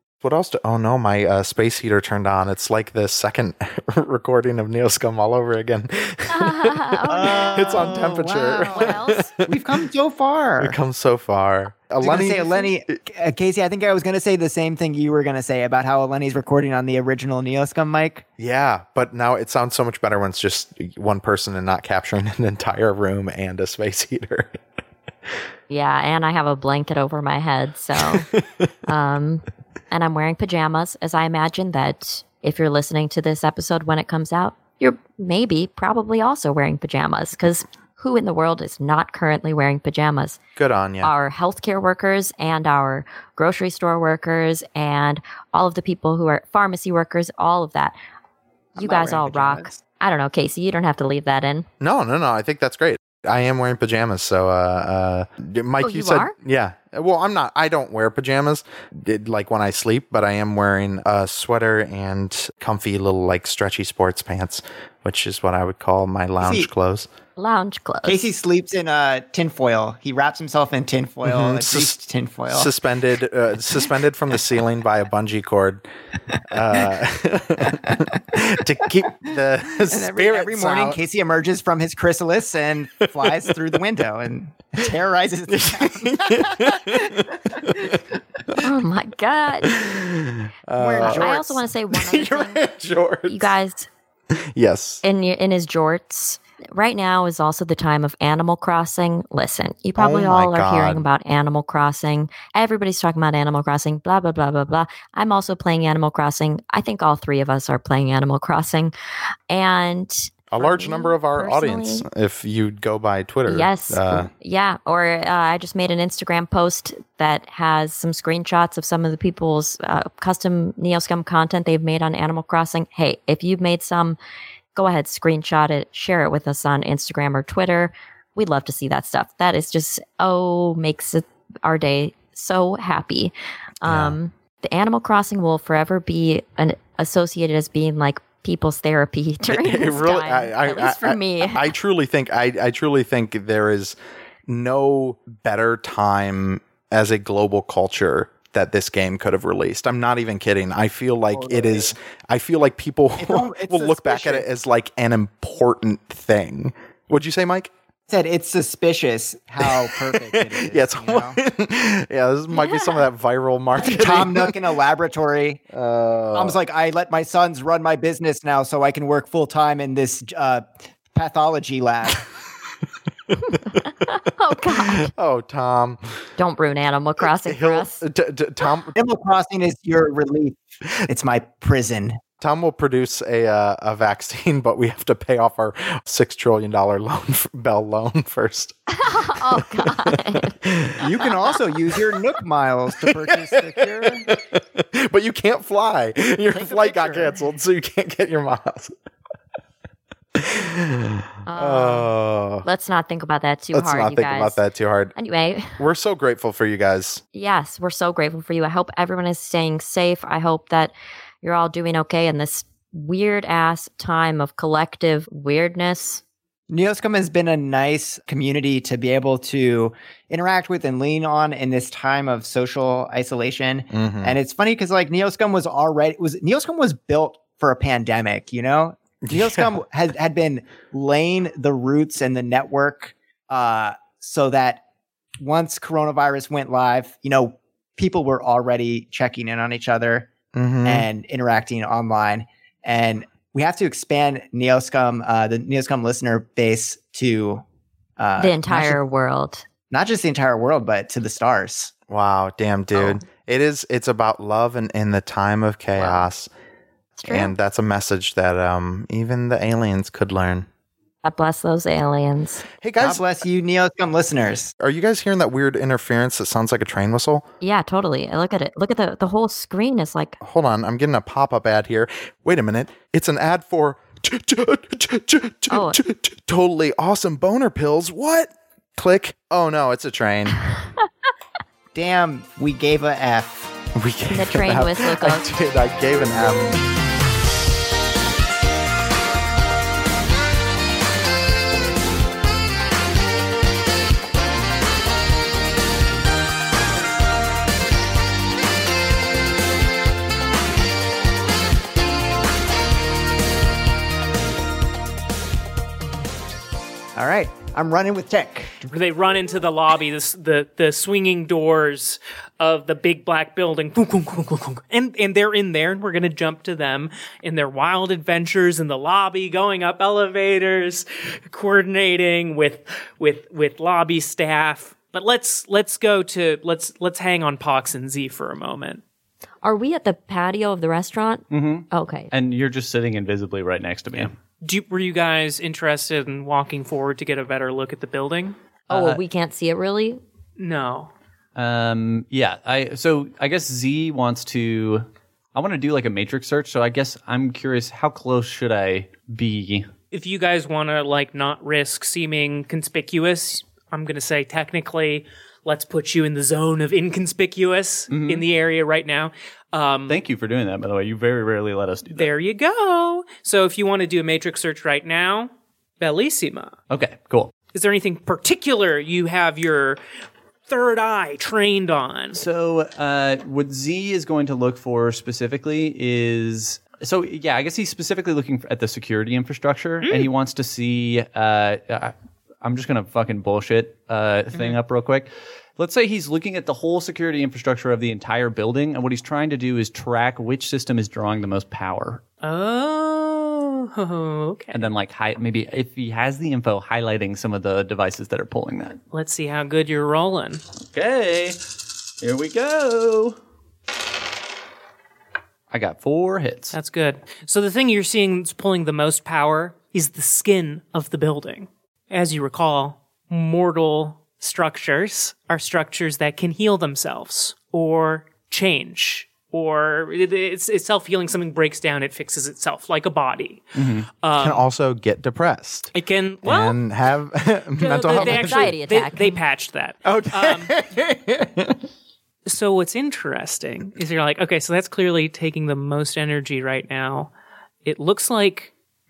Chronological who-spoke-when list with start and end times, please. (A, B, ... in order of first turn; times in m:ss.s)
0:00.2-0:09.8 A
0:06.3-0:08.1 B
0:07.1-0:10.8 C
0:08.7-0:09.3 B
0:10.6-0:12.8 A
0:12.0-0:18.2 C
0:18.4-0:24.6 A
0:25.7-0:28.3 B
0:28.9-0:40.4 B
0:40.6-0:41.1 A
0:41.0-0:48.0 B
0:48.8-0:49.8 C
0:48.8-0:51.7 B
0:51.8-1:07.1 A
0:55.8-0:56.3 B
1:06.4-1:06.7 C
1:07.4-1:08.3 B
1:08.1-1:12.7 C
1:11.2-1:12.0 A
1:12.5-1:15.8 A
1:16.5-1:21.0 A
1:19.8-1:28.0 C
1:23.2-1:23.4 A
1:25.5-1:28.0 A
1:28.6-1:29.8 B
1:29.6-1:31.3 A
1:30.8-1:31.6 C
1:31.0-1:32.6 B
1:31.9-1:33.5 A
1:33.3-1:33.9 B
1:34.3-1:35.0 A
1:35.0-1:48.9 B
1:40.0-1:41.1 A
1:49.5-1:52.1 B
1:50.5-1:54.3 A
1:53.5-2:04.2 B
2:04.8-2:21.7 B
2:13.8-2:14.2 A
2:19.5-2:24.0 A
2:24.5-2:37.7 A
2:31.3-2:31.9 C
2:33.2-2:34.5 C
2:38.1-2:41.4 C
2:39.6-2:44.7 A
2:42.6-2:43.0 B
2:43.8-2:45.6 C
2:45.7-2:46.6 A
2:46.4-2:52.3 C
2:53.8-2:55.1 B
2:54.7-2:56.0 A
2:56.4-2:58.0 B
2:57.2-2:59.0 A
2:58.9-3:02.2 C
3:02.4-3:11.1 A
3:08.9-3:10.6 B
3:11.0-3:14.3 C
3:13.0-3:19.0 A
3:16.5-3:17.3 C
3:20.4-3:22.7 A
3:21.5-3:22.1 B
3:22.6-3:24.6 B
3:23.7-3:25.2 A
3:25.2-3:25.8 B
3:25.8-3:27.2 A
3:27.3-3:36.2 B
3:36.7-3:54.8 C
3:43.9-3:44.4 A
3:49.2-3:49.8 A
3:55.4-4:00.3 C
4:00.5-4:01.1 A
4:00.8-4:07.6 C
4:08.2-4:09.0 C
4:08.4-4:09.6 B
4:09.9-4:11.9 C
4:12.1-4:16.5 A
4:16.0-4:16.2 B
4:17.2-4:17.5 B
4:17.3-4:20.7 A
4:21.2-4:22.6 B
4:22.8-4:23.2 A
4:23.0-4:24.7 C
4:24.8-4:27.4 A
4:27.6-4:30.4 B
4:30.4-4:40.6 A
4:35.7-4:36.0 B
4:41.9-4:43.8 C
4:44.0-4:46.8 A
4:44.3-4:45.5 B
5:07.2-5:08.9 C
5:08.9-5:29.0 D
5:29.6-5:32.3 B
5:31.5-5:34.4 E
5:34.6-5:38.6 D
5:38.9-5:39.2 E
5:38.9-5:40.2 B
5:40.6-5:41.1 D
5:41.6-5:49.9 E
5:50.1-6:00.2 D
5:58.1-5:58.5 E
6:00.1-6:02.3 E
6:02.1-6:06.8 D
6:06.9-6:07.5 E
6:07.7-6:10.0 D
6:10.7-6:12.4 D
6:12.3-6:32.2 E
6:20.0-6:20.3 D
6:32.4-6:34.8 D
6:34.7-6:39.0 E
6:39.1-6:40.6 D
6:40.8-6:41.7 E
6:42.2-6:43.4 E
6:45.7-6:46.8 E
6:46.7-7:04.6 D
7:03.8-7:04.1 E
7:04.4-7:08.7 A
7:06.0-7:06.8 D
7:07.8-7:10.7 D
7:08.0-7:09.4 B
7:10.0-7:11.8 A
7:12.4-7:17.3 D
7:17.8-7:18.7 D